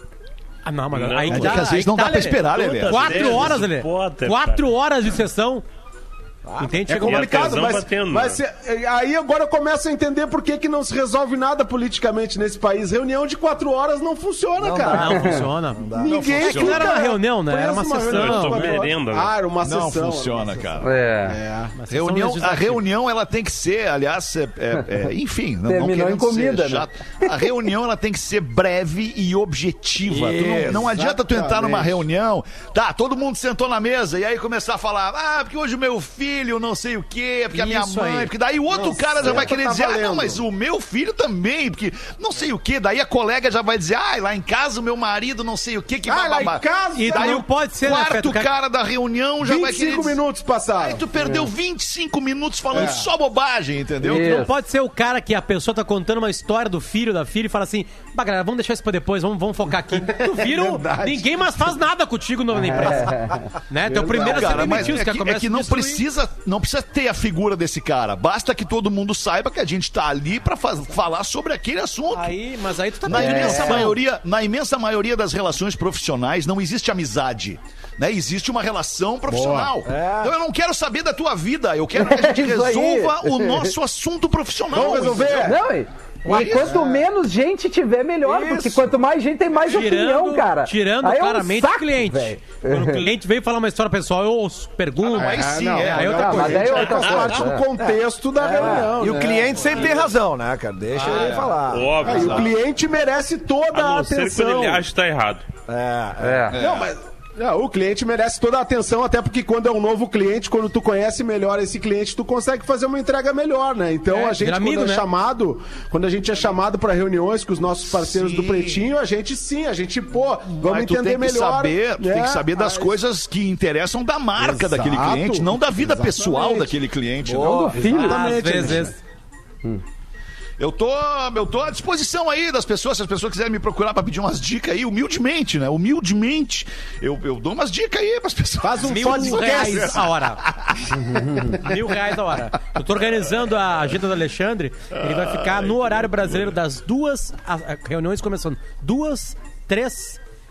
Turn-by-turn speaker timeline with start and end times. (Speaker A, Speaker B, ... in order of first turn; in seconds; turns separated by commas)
Speaker A: 0.7-5.7, Speaker B: 0.9-1.7, Speaker C: 1.3-3.6, Speaker B: 2.6-4.7, Speaker D: 6.5-6.9, Speaker A: 6.6-7.4, Speaker E: 6.9-15.3, Speaker B: 7.0-8.4, Speaker D: 14.6-14.9, Speaker A: 14.8-18.8, Speaker F: 14.8-15.4, Speaker D: 15.9-16.2, Speaker E: 15.9-21.8, Speaker C: 15.9-17.0, Speaker B: 18.0-19.4, Speaker C: 19.6-20.9, Speaker F: 20.8-21.4, Speaker A: 21.8-22.8, Speaker C: 21.9-50.2, Speaker F: 25.7-27.5, Speaker D: 30.0-30.9, Speaker E: 30.8-32.0, Speaker A: 37.5-38.3, Speaker E: 38.7-40.4, Speaker E: 46.1-47.4, Speaker A: 47.0-48.5, Speaker E: 49.4-51.0, Speaker C: 50.8-54.5, Speaker E: 52.7-53.1, Speaker F: 54.0-54.5, Speaker A: 54.0-66.0, Speaker E: 60.0-61.6, Speaker E: 62.7-63.1, Speaker F: 62.8-63.4, Speaker E: 63.9-65.0, Speaker C: 64.2-72.4, Speaker A: 72.1-74.0, Speaker C: 73.0-85.6, Speaker F: 73.1-74.0, Speaker E: 79.3-79.7, Speaker D: 79.8-80.3, Speaker F: 82.0-83.7, Speaker E: 84.7-85.6, Speaker F: 85.4-93.1, Speaker D: 86.3-86.8, Speaker C: 86.3-86.8, Speaker D: 88.2-88.9, Speaker A: 89.6-96.8, Speaker C: 95.0-97.4, Speaker E: 95.1-99.9, Speaker F: 96.3-97.7, Speaker D: 97.8-102.1, Speaker A: 100.9-101.4, Speaker C: 101.1-102.5, Speaker B: 101.6-102.5, Speaker E: 102.0-104.8, Speaker B: 103.7-105.5, Speaker D: 105.7-106.5, Speaker F: 106.2-106.6, Speaker C: 106.5-106.9, Speaker E: 106.6-122.9, Speaker A: 114.1-115.1, Speaker C: 117.9-118.9, Speaker C: 120.5-128.0, Speaker E: 124.4-126.8, Speaker D: 127.2-127.8, Speaker F: 127.4-128.2, Speaker E: 127.4-128.9, Speaker A: 127.9-129.0, Speaker C: 130.6-142.0, Speaker E: 138.6-140.0, Speaker A: 138.8-140.4, Speaker A: 141.6-150.2, Speaker C: 145.0-146.6